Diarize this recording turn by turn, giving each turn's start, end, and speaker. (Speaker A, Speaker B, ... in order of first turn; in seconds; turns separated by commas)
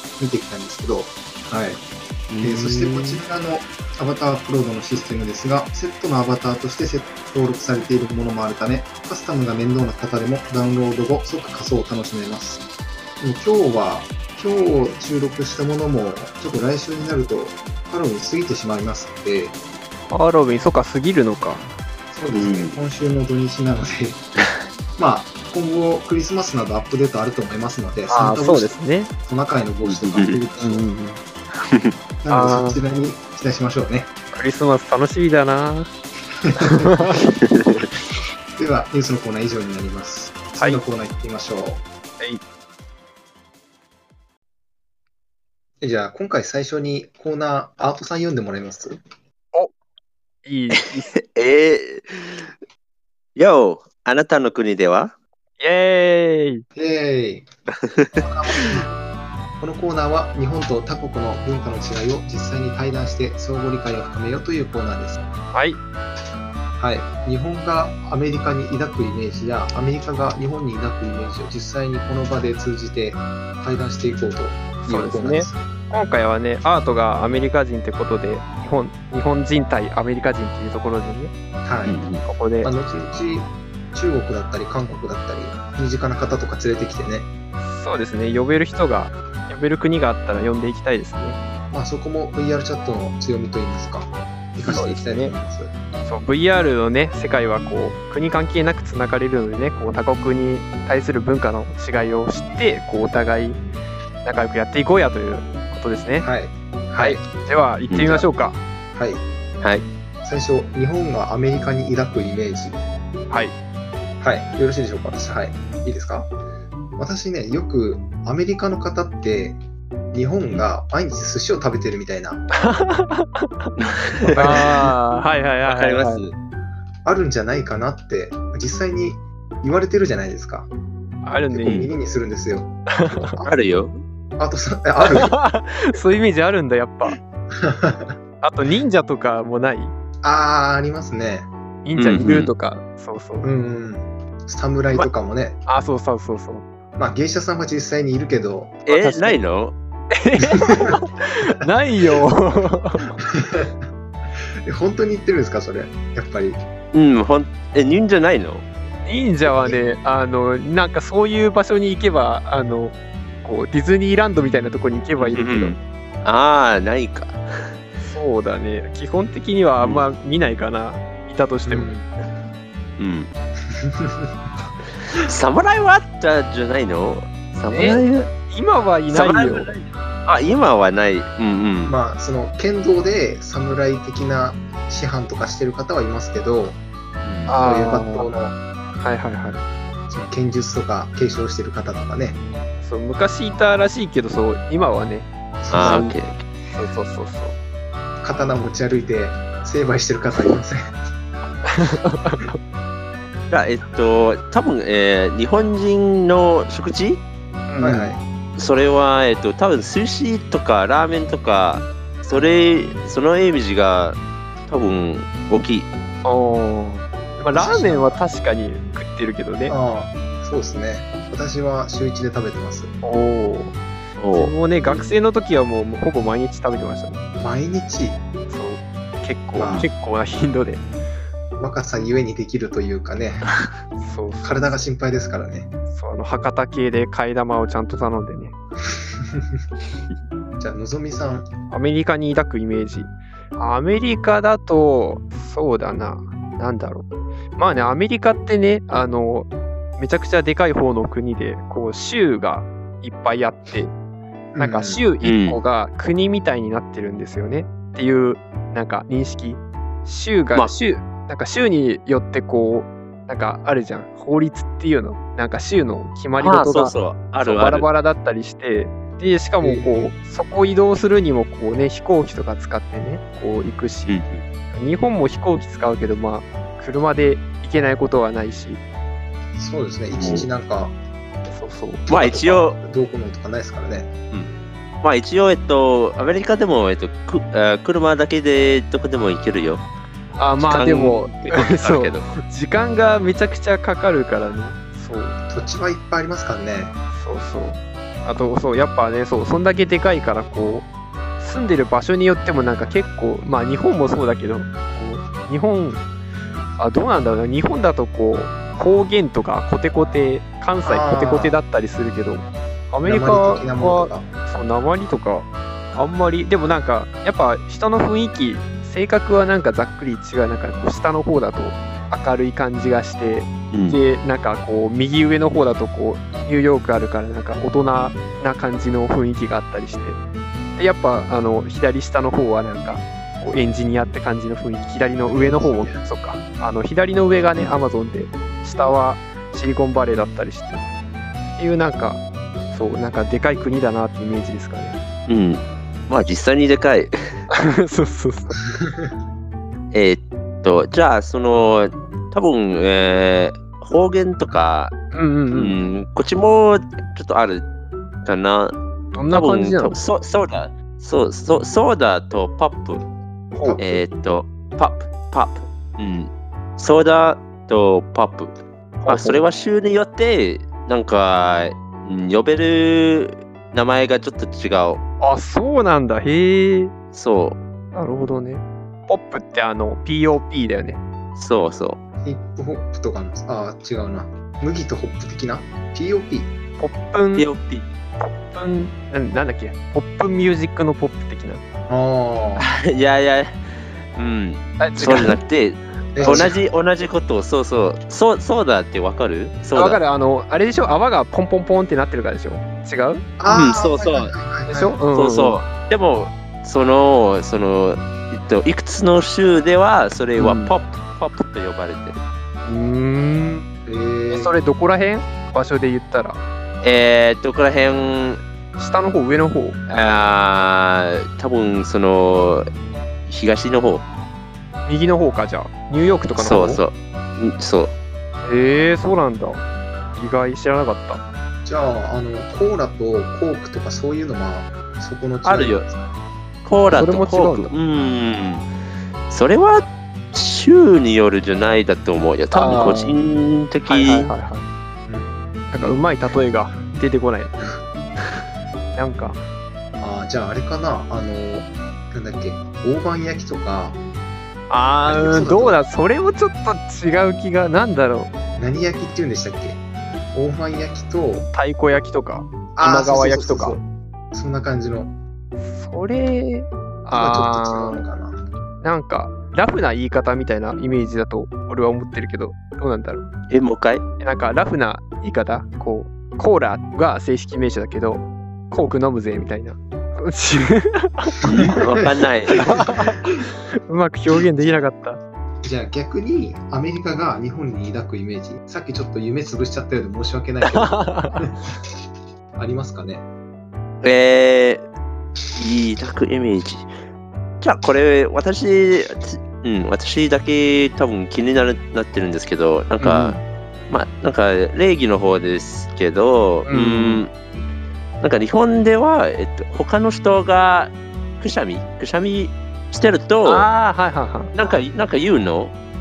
Speaker A: 0.2-1.8, Speaker B: 2.3-3.2, Speaker A: 2.4-12.6, Speaker A: 13.2-19.6, Speaker B: 20.1-21.7, Speaker A: 22.1-24.2, Speaker C: 22.3-22.8, Speaker A: 25.0-30.9, Speaker B: 28.1-29.1, Speaker C: 29.9-30.4, Speaker B: 30.6-31.2, Speaker C: 31.6-31.9, Speaker A: 32.2-34.1, Speaker B: 32.3-32.8, Speaker B: 34.3-35.9, Speaker A: 36.5-37.2, Speaker B: 36.6-37.3, Speaker C: 37.4-37.9, Speaker A: 38.6-41.8, Speaker A: 45.8-49.0, Speaker B: 50.5-51.2, Speaker C: 51.1-52.5, Speaker C: 53.4-55.1, Speaker B: 55.6-56.6, Speaker A: 56.8-57.5, Speaker A: 58.1-58.9, Speaker A: 59.6-65.2, Speaker B: 65.5-65.8, Speaker A: 66.8-75.6, Speaker B: 74.8-81.3, Speaker A: 81.7-82.0, Speaker C: 81.9-82.2, Speaker B: 82.2-82.7, Speaker A: 82.6-87.3, Speaker B: 87.6-91.4, Speaker A: 91.7-95.7, Speaker B: 94.7-95.3, Speaker B: 96.0-103.6, Speaker B: 104.2-106.3, Speaker A: 106.2-107.2, Speaker B: 107.0-108.6, Speaker C: 107.9-108.3, Speaker A: 108.9-109.2, Speaker A: 110.2-112.8, Speaker A: 114.2-116.3, Speaker A: 117.0-119.6, Speaker A: 120.1-122.5, Speaker B: 122.5-123.7, Speaker C: 123.8-124.8, Speaker A: 124.3-124.9, Speaker B: 124.3-126.2, Speaker C: 125.7-126.3, Speaker A: 127.0-130.7, Speaker B: 131.2-131.9, Speaker A: 131.5-132.7, Speaker B: 132.9-133.4, Speaker C: 133.4-134.0, Speaker A: 134.4-135.4, Speaker B: 135.1-137.2, Speaker A: 137.6-138.2, Speaker B: 138.4-139.9, Speaker A: 140.2-141.5, Speaker B: 141.8-143.5, Speaker C: 142.0-142.5, Speaker A: 143.4-145.6, Speaker B: 145.7-146.7, Speaker A: 147.0-148.8, Speaker C: 148.9-149.8, Speaker B: 148.9-149.4, Speaker B: 150.1-153.2, Speaker A: 153.2-153.7, Speaker A: 154.7-156.6, Speaker C: 156.9-158.7, Speaker B: 159.1-165.8, Speaker A: 159.4-159.8, Speaker C: 165.2-167.4, Speaker B: 168.0-171.9, Speaker C: 169.8-170.0, Speaker A: 171.7-172.1, Speaker C: 173.0-173.3, Speaker A: 173.8-174.3, Speaker C: 175.2-178.3, Speaker B: 177.7-179.7, Speaker C: 179.1-181.9, Speaker A: 181.9-188.6, Speaker B: 187.5-188.3, Speaker B: 189.0-189.6, Speaker A: 190.1-192.4, Speaker B: 192.8-196.2, Speaker A: 195.6-196.1, Speaker C: 195.7-196.4, Speaker B: 196.7-197.6, Speaker A: 198.2-200.9, Speaker B: 201.7-202.6, Speaker C: 203.5-207.2, Speaker B: 207.7-208.2, Speaker A: 207.8-208.2, Speaker C: 208.6-215.9, Speaker B: 216.2-219.8, Speaker A: 217.4-218.2, Speaker A: 219.7-222.9, Speaker B: 223.0-223.8, Speaker C: 224.2-225.1, Speaker B: 224.3-227.3, Speaker A: 227.4-228.2, Speaker B: 228.5-230.8, Speaker A: 229.6-229.9, Speaker A: 231.6-233.5, Speaker B: 234.0-234.9, Speaker A: 234.4-235.7, Speaker B: 235.9-238.5, Speaker A: 240.6-241.5, Speaker B: 241.7-247.1, Speaker B: 247.6-253.9, Speaker A: 254.5-255.0, Speaker B: 254.6-274.2, Speaker C: 255.2-255.6, Speaker C: 266.4-267.9, Speaker A: 269.6-270.1, Speaker C: 274.1-274.4, Speaker B: 274.7-278.8, Speaker A: 279.6-281.0, Speaker C: 280.2-280.5, Speaker B: 281.5-282.1, Speaker C: 282.1-282.8, Speaker A: 282.1-284.1, Speaker C: 285.0-289.9, Speaker B: 290.4-295.4, Speaker C: 290.6-292.3, Speaker A: 295.5-296.9, Speaker B: 297.1-300.9, Speaker B: 301.4-306.0, Speaker B: 306.8-330.2, Speaker A: 310.9-311.6, Speaker A: 313.1-314.3, Speaker C: 323.7-324.0, Speaker B: 330.8-340.8, Speaker A: 335.3-336.0, Speaker B: 341.6-345.0, Speaker C: 345.3-347.1, Speaker B: 347.5-348.6, Speaker C: 349.9-355.0, Speaker B: 355.1-355.8, Speaker C: 355.5-357.7, Speaker C: 358.2-358.8, Speaker B: 359.1-360.0, Speaker C: 359.3-363.1, Speaker B: 363.6-363.8, Speaker A: 363.6-364.0, Speaker C: 363.8-375.0, Speaker B: 369.0-369.4, Speaker B: 375.2-376.9, Speaker C: 377.1-377.6, Speaker B: 377.9-381.0, Speaker C: 381.4-382.0, Speaker A: 382.2-386.5, Speaker B: 386.8-387.5, Speaker C: 387.4-387.9, Speaker B: 388.2-391.6, Speaker A: 391.9-392.7, Speaker C: 392.6-400.0, Speaker B: 394.8-395.4, Speaker A: 396.2-396.6, Speaker B: 396.2-396.5, Speaker B: 399.7-403.2, Speaker A: 403.4-405.0, Speaker C: 403.5-404.3, Speaker B: 404.7-405.6, Speaker C: 405.1-412.2, Speaker B: 410.4-410.7, Speaker B: 412.6-413.7, Speaker A: 413.9-414.5, Speaker B: 414.3-416.4, Speaker C: 416.8-418.4, Speaker B: 418.8-419.8, Speaker C: 419.9-422.7, Speaker C: 423.3-424.1, Speaker B: 424.9-426.8, Speaker C: 426.4-427.9, Speaker B: 428.4-429.6, Speaker B: 430.1-431.2, Speaker A: 431.6-436.1, Speaker C: 435.4-435.9, Speaker C: 436.6-438.7, Speaker B: 436.9-437.7, Speaker C: 439.3-444.3, Speaker A: 442.5-443.0, Speaker B: 442.6-443.2, Speaker B: 443.9-444.7, Speaker A: 445.1-445.3, Speaker B: 445.7-447.7, Speaker B: 448.9-449.4, Speaker A: 450.0-454.0, Speaker B: 454.7-458.3, Speaker A: 455.1-455.8, Speaker A: 458.6-459.8, Speaker A: 460.3-461.5, Speaker B: 461.5-463.8, Speaker A: 462.8-465.1, Speaker B: 465.6-468.0, Speaker A: 467.1-468.4, Speaker B: 468.8-473.3, Speaker C: 473.5-474.0, Speaker B: 474.2-481.4, Speaker C: 481.4-482.9, Speaker B: 482.6-483.4, Speaker A: 482.7-483.5, Speaker B: 483.9-485.2, Speaker A: 485.6-491.6, Speaker B: 490.6-491.5, Speaker A: 492.6-493.3, Speaker C: 494.0-494.9, Speaker C: 495.6-496.9, Speaker C: 497.6-503.4, Speaker B: 503.0-503.4, Speaker C: 503.9-507.3, Speaker B: 506.7-507.2, Speaker C: 508.2-513.7, Speaker B: 513.5-514.5, Speaker C: 514.5-515.7